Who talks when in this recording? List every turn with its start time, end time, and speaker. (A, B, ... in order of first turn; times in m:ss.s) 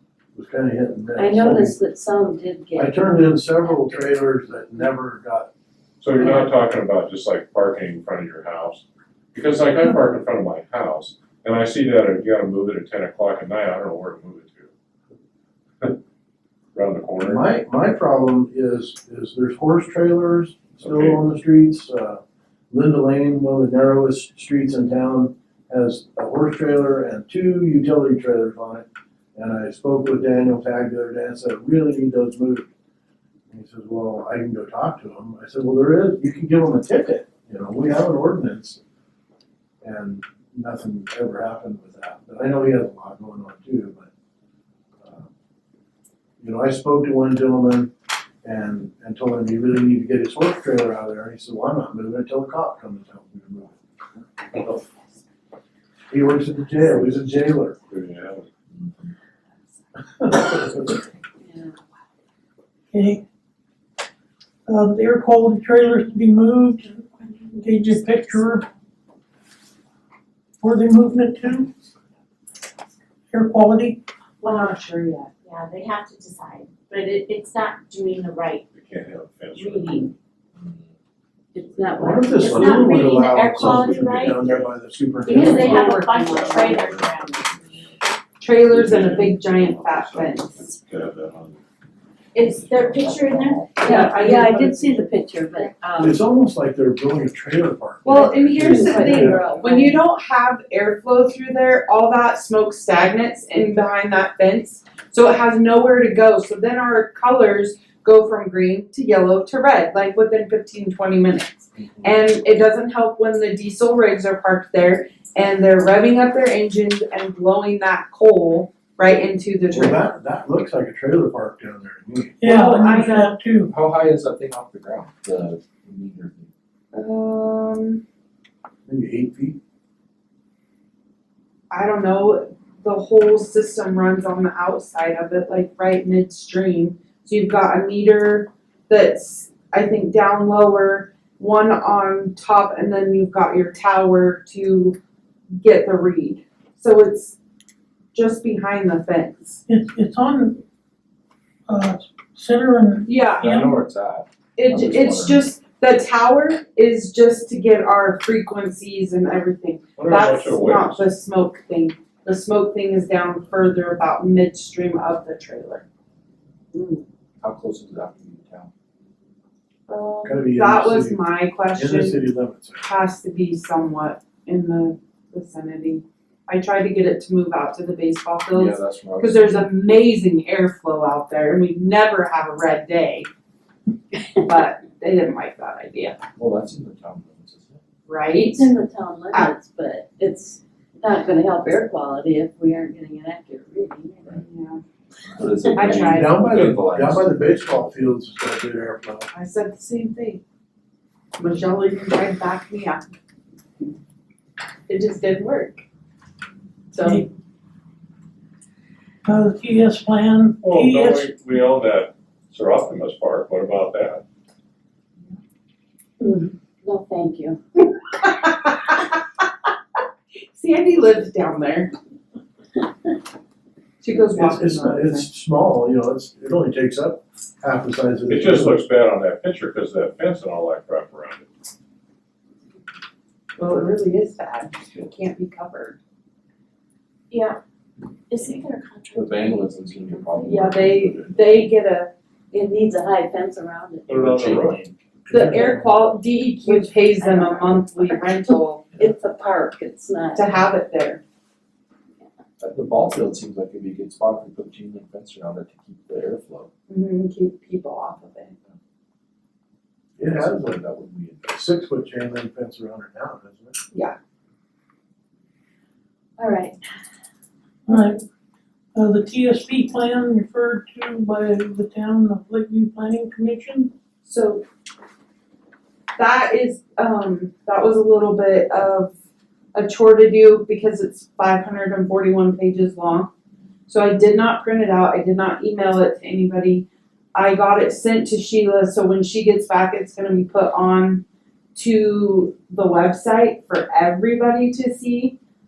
0:00.3-0:01.8 A
0:01.2-0:03.4 B
0:02.7-0:05.5 A
0:06.0-0:14.7 C
0:16.7-0:17.4 C
0:17.2-0:32.7 A
0:20.8-0:21.2 C
0:33.5-0:38.8 A
0:39.8-0:44.1 A
0:45.0-0:45.3 A
0:46.4-0:47.9 A
0:48.4-0:53.8 A
0:56.1-0:57.8 A
0:57.9-0:58.5 C
1:00.2-1:00.9 A
1:01.4-1:01.7 B
1:02.9-1:03.2 D
1:04.6-1:07.0 D
1:07.4-1:07.9 B
1:07.6-1:08.7 D
1:10.6-1:11.7 D
1:13.3-1:14.0 D
1:14.4-1:15.3 E
1:15.5-1:18.5 F
1:15.8-1:18.6 B
1:18.7-1:20.1 C
1:19.6-1:20.0 F
1:20.6-1:20.9 G
1:21.5-1:24.4 B
1:21.6-1:22.8 C
1:22.0-1:26.1 A
1:22.9-1:23.4 F
1:23.5-1:24.7 C
1:25.3-1:27.4 B
1:25.3-1:26.1 E
1:25.5-1:27.9 C
1:26.5-1:27.4 F
1:28.4-1:30.6 E
1:28.7-1:31.6 C
1:32.3-1:36.2 B
1:32.5-1:32.8 C
1:32.7-1:33.7 G
1:32.9-1:33.7 F
1:33.8-1:35.1 E
1:36.0-1:39.5 A
1:38.0-2:00.1 E
1:38.6-1:40.0 B
1:59.7-2:02.4 A
2:02.4-2:03.7 D
2:02.4-2:03.3 E
2:03.6-2:06.5 G
2:06.9-2:08.0 E
2:08.8-2:09.6 A
2:11.7-2:25.0 E
2:25.6-2:27.4 E
2:28.1-2:29.6 E
2:29.7-2:30.6 D
2:31.7-2:33.8 D
2:33.0-2:33.5 E
2:33.4-2:35.5 G
2:34.6-2:45.8 E
2:40.0-2:41.1 C
2:46.7-2:47.0 E
2:47.4-2:48.7 G
2:49.9-2:52.3 E
2:50.2-2:52.9 A
2:52.8-3:03.3 E
2:58.5-2:59.7 G
3:04.4-3:06.2 E
3:06.4-3:07.8 G
3:08.0-3:08.7 E
3:08.4-3:14.3 B
3:14.4-3:14.8 E
3:15.3-3:18.1 G
3:15.7-3:16.4 E
3:16.0-3:19.3 A
3:19.3-3:20.4 E
3:21.4-3:23.0 E
3:24.9-3:25.8 E
3:26.9-3:27.2 E
3:29.2-3:31.3 D
3:30.6-3:34.2 C
3:36.2-3:37.6 B
3:38.2-3:39.1 E
3:40.5-3:41.9 E
3:44.0-3:45.3 E
3:44.3-3:48.8 A
3:48.3-3:51.4 C
3:53.6-3:56.0 E
3:57.3-3:57.6 B
3:58.3-4:00.3 B
3:59.1-4:01.5 G
4:00.4-4:02.1 E
4:02.5-4:04.2 B
4:04.1-4:04.8 C
4:04.1-4:05.0 G
4:05.2-4:06.1 A
4:05.3-4:09.0 E
4:06.6-4:10.5 B
4:10.3-4:11.2 E
4:12.6-4:16.7 G
4:16.9-4:18.5 E
4:20.2-4:20.8 A
4:20.2-4:21.5 G
4:21.4-4:23.8 A
4:26.4-4:26.8 B
4:27.9-4:28.2 D
4:28.9-4:33.9 D
4:34.2-4:34.6 E
4:36.2-4:39.1 E
4:39.7-4:43.3 E
4:43.9-4:51.2 E
4:51.7-4:55.3 E